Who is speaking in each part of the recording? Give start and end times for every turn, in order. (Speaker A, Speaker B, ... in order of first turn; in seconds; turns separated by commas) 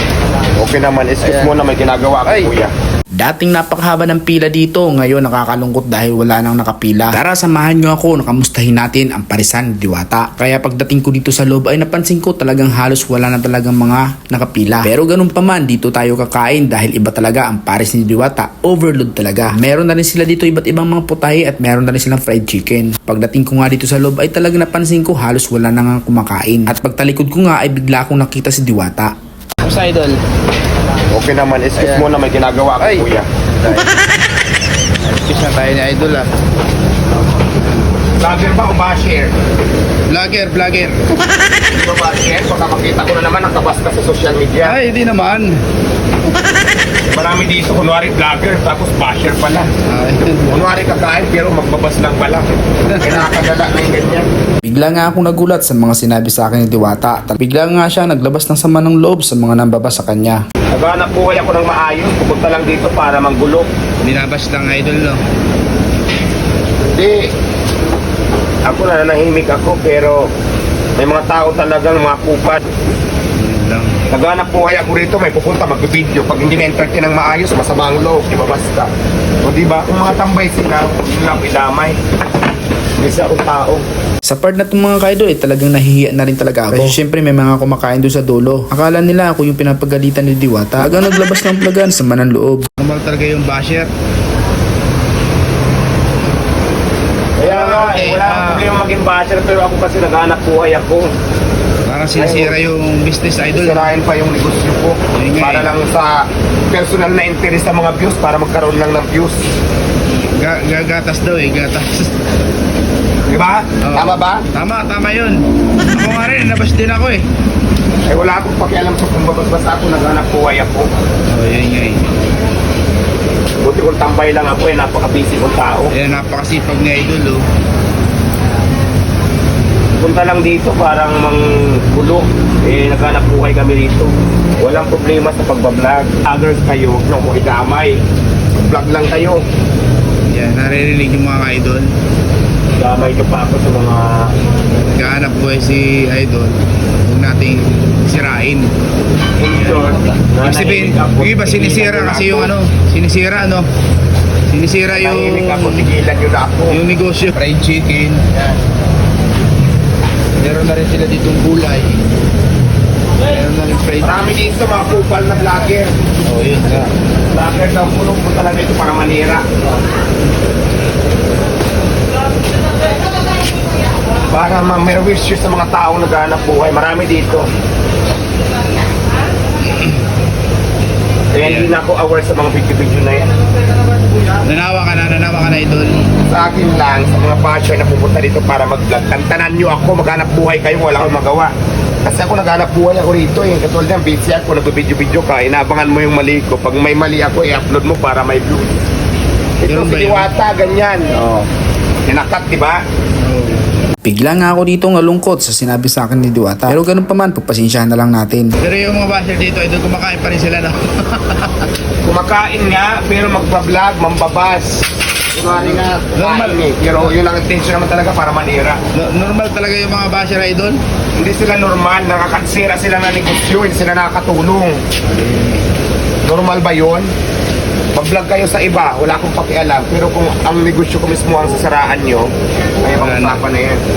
Speaker A: 0.6-2.7, Speaker B: 1.2-1.5, Speaker C: 3.2-29.1, Speaker B: 29.6-30.2, Speaker A: 31.1-33.2, Speaker B: 31.8-32.1, Speaker B: 32.8-33.0, Speaker B: 33.6-33.9, Speaker B: 35.0-36.3, Speaker A: 38.2-39.3, Speaker B: 40.1-41.0, Speaker A: 41.6-44.8, Speaker B: 44.6-45.6, Speaker A: 47.1-49.7, Speaker B: 49.9-50.6, Speaker A: 50.5-52.4, Speaker B: 52.9-53.2, Speaker A: 53.0-54.3, Speaker C: 54.6-60.4, Speaker A: 60.7-63.7, Speaker B: 64.0-65.2, Speaker A: 66.9-67.2, Speaker A: 68.6-70.3, Speaker A: 71.0-72.6, Speaker B: 73.3-74.0, Speaker A: 74.1-78.9, Speaker A: 79.4-82.0, Speaker A: 83.0-83.8, Speaker C: 84.2-92.7, Speaker B: 92.8-93.9, Speaker A: 97.4-101.1, Speaker B: 97.4-98.7, Speaker B: 101.8-103.9, Speaker A: 102.1-102.6, Speaker A: 103.5-109.4, Speaker B: 105.1-105.7, Speaker B: 110.2-112.1, Speaker A: 113.3-114.4, Speaker B: 113.8-117.2, Speaker A: 118.0-120.9, Speaker B: 121.3-122.1, Speaker A: 123.6-125.9, Speaker B: 125.9-127.5, Speaker A: 130.0-138.0, Speaker A: 138.5-139.4, Speaker B: 140.3-141.9, Speaker A: 142.8-144.3, Speaker B: 144.9-148.7, Speaker A: 149.4-152.5, Speaker B: 149.5-153.7, Speaker B: 154.5-155.9, Speaker A: 154.9-156.8, Speaker B: 156.7-158.2, Speaker B: 160.4-162.1, Speaker B: 163.3-164.2, Speaker A: 164.0-165.9, Speaker B: 166.2-166.9, Speaker A: 167.3-169.4, Speaker A: 174.3-177.5, Speaker A: 181.3-183.3, Speaker B: 181.3-181.7, Speaker B: 184.4-186.1, Speaker A: 186.2-191.5, Speaker A: 192.0-198.7, Speaker A: 199.6-201.1, Speaker B: 199.6-200.3, Speaker A: 202.0-202.8, Speaker B: 203.2-203.6, Speaker C: 204.0-208.5, Speaker B: 208.6-211.7, Speaker A: 212.0-214.8, Speaker A: 215.3-218.8, Speaker B: 215.5-217.1, Speaker B: 218.9-220.8, Speaker A: 221.2-224.8, Speaker B: 225.1-225.6, Speaker A: 226.2-227.1, Speaker A: 227.9-232.3, Speaker A: 232.8-233.8, Speaker B: 233.0-233.4